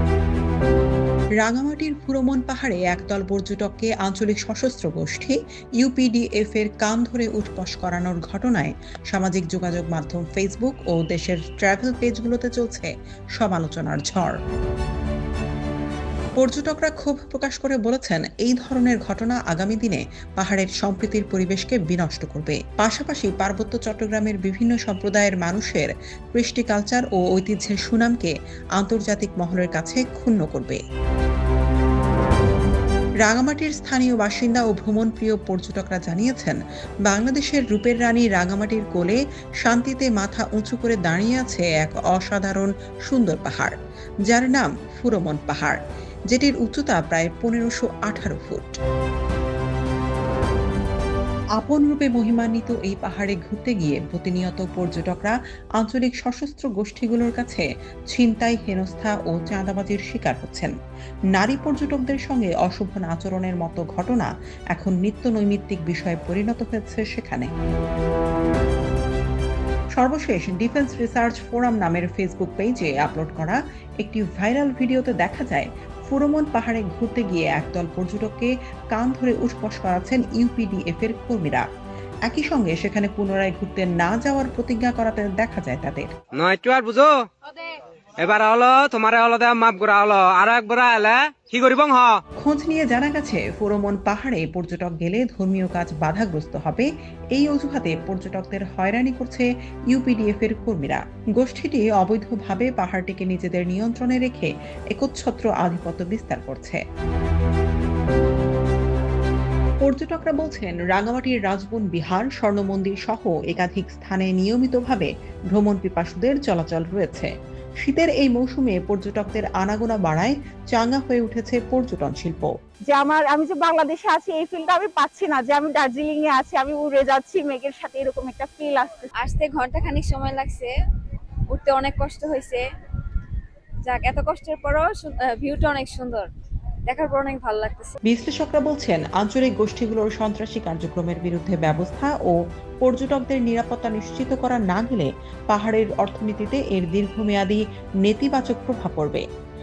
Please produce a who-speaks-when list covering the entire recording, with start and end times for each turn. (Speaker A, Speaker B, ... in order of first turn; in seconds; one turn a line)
Speaker A: 1.4-14.4
Speaker A: 16.4-30.8
Speaker A: 33.2-43.7
Speaker A: 44.3-45.8
Speaker A: 46.3-48.7
Speaker A: 51.6-60.7
Speaker A: 61.3-67.5
Speaker A: 70.0-81.6
Speaker A: 82.2-86.1
Speaker B: 86.3-87.2
Speaker B: 88.2-92.2
Speaker A: 92.4-106.8
Speaker A: 109.8-122.5
Speaker C: 122.9-129.1
Speaker D: 129.2-130.7
Speaker D: 131.5-132.6
Speaker D: 133.8-136.3
Speaker D: 136.9-137.9
Speaker A: 138.0-149.2